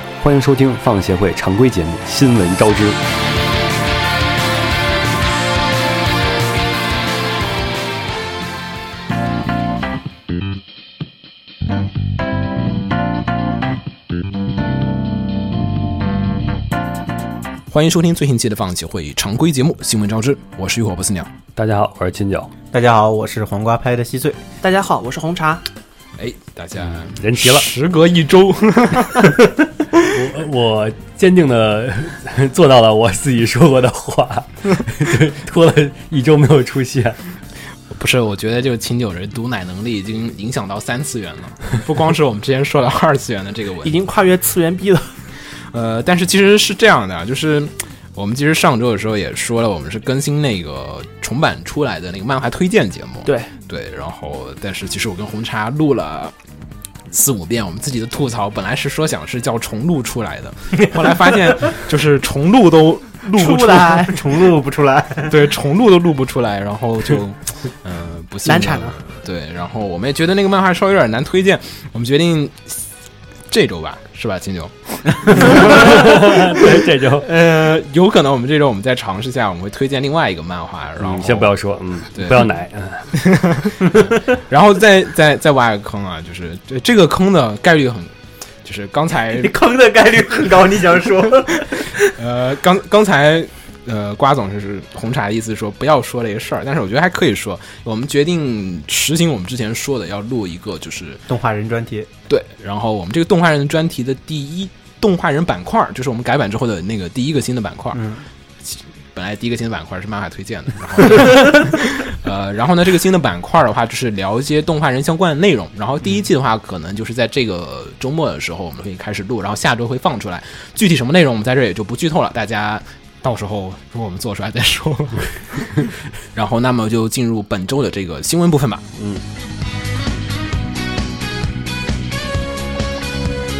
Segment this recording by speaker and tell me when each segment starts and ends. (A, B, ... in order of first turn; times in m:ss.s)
0:00.2-0:03.0 A
0:17.7-0:21.3 B
0:21.6-0:22.5 A
0:22.7-0:24.4 C
0:24.6-0:25.6 D
0:26.2-0:29.4 B
0:26.9-0:27.7 A
0:30.0-0:37.2 A
0:37.9-0:44.0 B
0:43.8-0:45.2 D
0:45.7-0:56.3 B
0:53.2-0:53.5 D
0:57.1-1:03.9 B
1:03.4-1:04.3 D
1:03.4-1:05.4 C
1:05.2-1:12.9 B
1:08.4-1:09.0 D
1:13.5-1:21.6 B
1:15.4-1:17.3 A
1:21.0-1:23.1 A
1:22.1-1:22.5 B
1:23.1-1:29.5 B
1:29.3-1:32.0 C
1:32.1-1:41.2 B
1:41.3-1:42.1 C
1:42.3-1:48.0 B
1:47.9-1:48.2 C
1:48.6-2:08.8 B
2:08.9-2:09.2 A